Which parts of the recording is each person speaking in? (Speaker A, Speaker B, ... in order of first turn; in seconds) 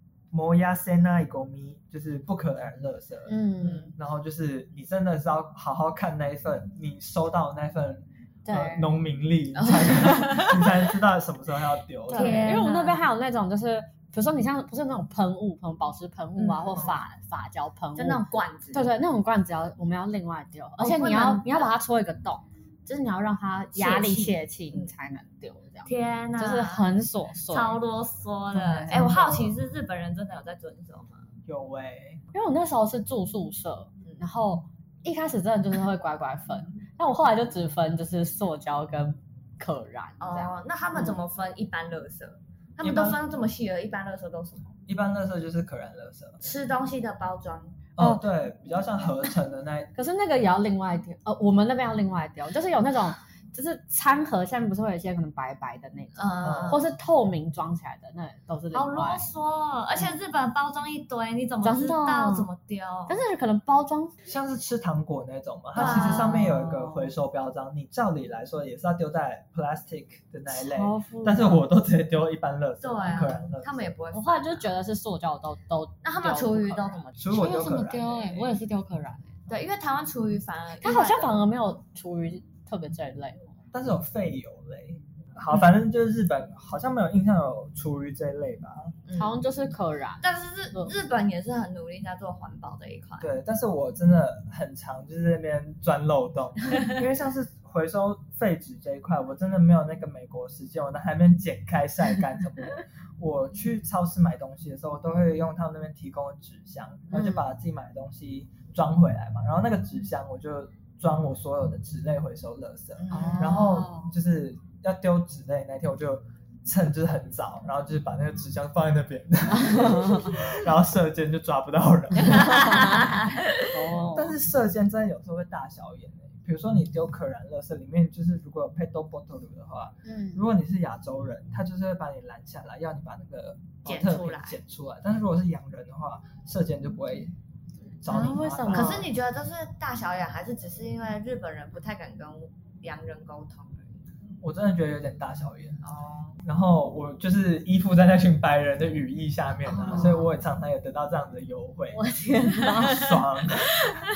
Speaker A: 0.3-3.4, 4.0-12.6, 28.9-29.5, 31.4-32.2, 42.8-43.2, 44.9-46.4, 48.0-49.9, 56.4-56.8, 64.2-73.9, 77.2-78.6, 83.7-88.9, 93.2-122.9, 124.1-137.3, 138.0-139.1, 144.4-145.8, 146.4-152.0, 152.6-154.0
Speaker B: 3.3-3.9, 8.4-8.9, 12.1-18.2, 18.7-27.8, 28.5-29.4, 32.3-41.2, 48.0-48.2, 50.0-59.2, 61.6-62.5, 63.1-64.1, 65.7-67.1, 70.5-71.7, 73.1-73.4, 74.1-79.4, 80.8-83.6, 89.1-90.9, 107.1-107.4, 113.1-114.1, 119.5-120.5, 122.3-123.1, 123.7-124.3, 130.0-130.4, 138.1-139.1, 149.8-150.3, 151.9-153.2
Speaker C: 3.6-3.9, 9.6-10.6, 12.1-13.0, 16.4-16.9, 17.9-18.9, 20.8-21.7, 23.7-24.9, 25.9-26.9, 27.5-31.3, 40.2-44.8, 46.4-47.8, 56.1-56.9, 58.7-63.2, 65.8-66.4, 72.8-74.7, 76.0-77.2, 79.5-81.4, 89.0-89.4, 90.2-93.3, 96.6-97.0, 113.0-113.6, 122.3-123.7, 133.8-134.6, 138.7-144.0, 145.8-146.4, 149.7-150.2